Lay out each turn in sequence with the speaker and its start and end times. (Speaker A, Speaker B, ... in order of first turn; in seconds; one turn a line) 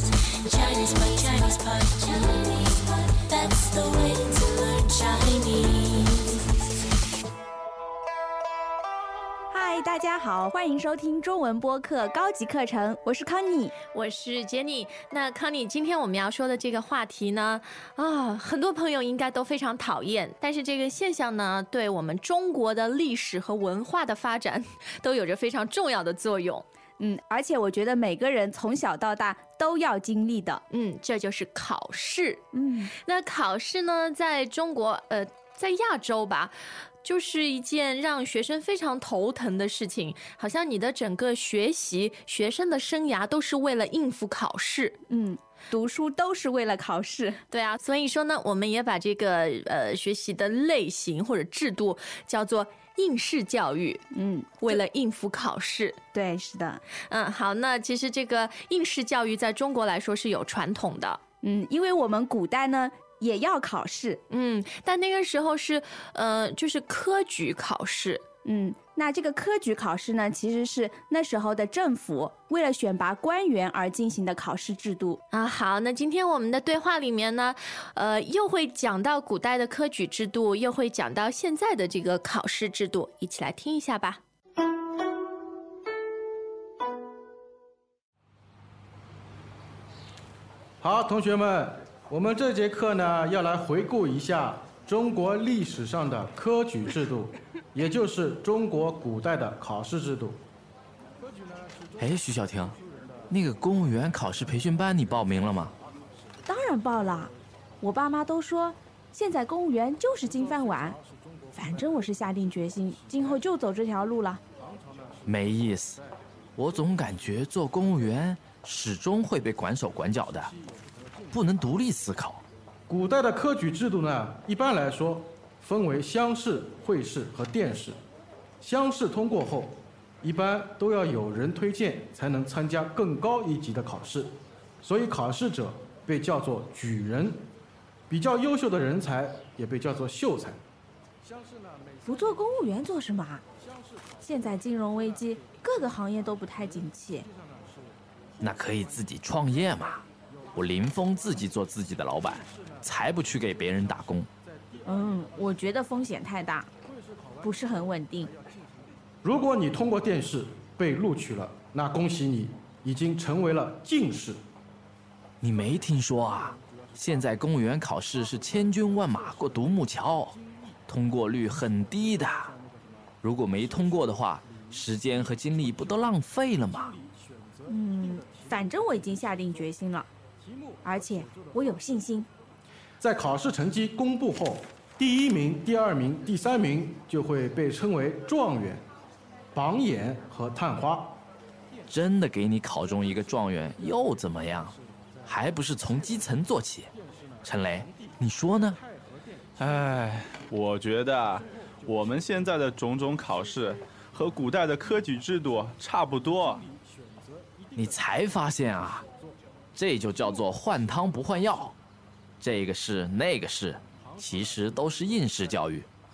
Speaker A: 0.5-6.2
Speaker B: 9.5-13.7
Speaker C: 13.9-26.6
Speaker B: 27.0-30.6
Speaker C: 30.7-45.0
Speaker B: 32.5-32.9
Speaker B: 45.1-47.4
Speaker C: 47.5-54.1
Speaker B: 54.1-54.8
Speaker C: 54.6-56.0
Speaker B: 56.1-56.8
Speaker C: 57.1-61.2
Speaker B: 61.4-64.2
Speaker C: 64.3-68.2
Speaker B: 68.5-75.2
Speaker C: 75.3-84.2
Speaker D: 90.8-100.4
Speaker E: 102.0-102.8
Speaker E: 103.3-105.8
Speaker B: 106.5-111.0
Speaker B: 111.5-114.4
Speaker E: 115.2-116.0
Speaker E: 116.6-120.5
Speaker E: 121.3-122.4
Speaker D: 122.9-128.0
Speaker D: 128.6-137.4
Speaker D: 138.1-140.6
Speaker B: 142.1-143.4
Speaker B: 144.2-147.3
Speaker E: 148.4-154.3
Speaker B: 154.9-156.7
Speaker B: 157.4-158.3
Speaker D: 159.2-164.4
Speaker E: 165.4-172.6
Speaker E: 173.2-177.0
Speaker B: 177.7-180.1
Speaker B: 180.8-182.3
Speaker D: 183.0-188.8
Speaker D: 189.5-191.2
Speaker E: 191.9-196.9
Speaker E: 197.4-198.8
Speaker F: 199.6-206.7
Speaker E: 207.8-209.1
Speaker E: 209.8-211.8
Speaker E: 212.4-215.9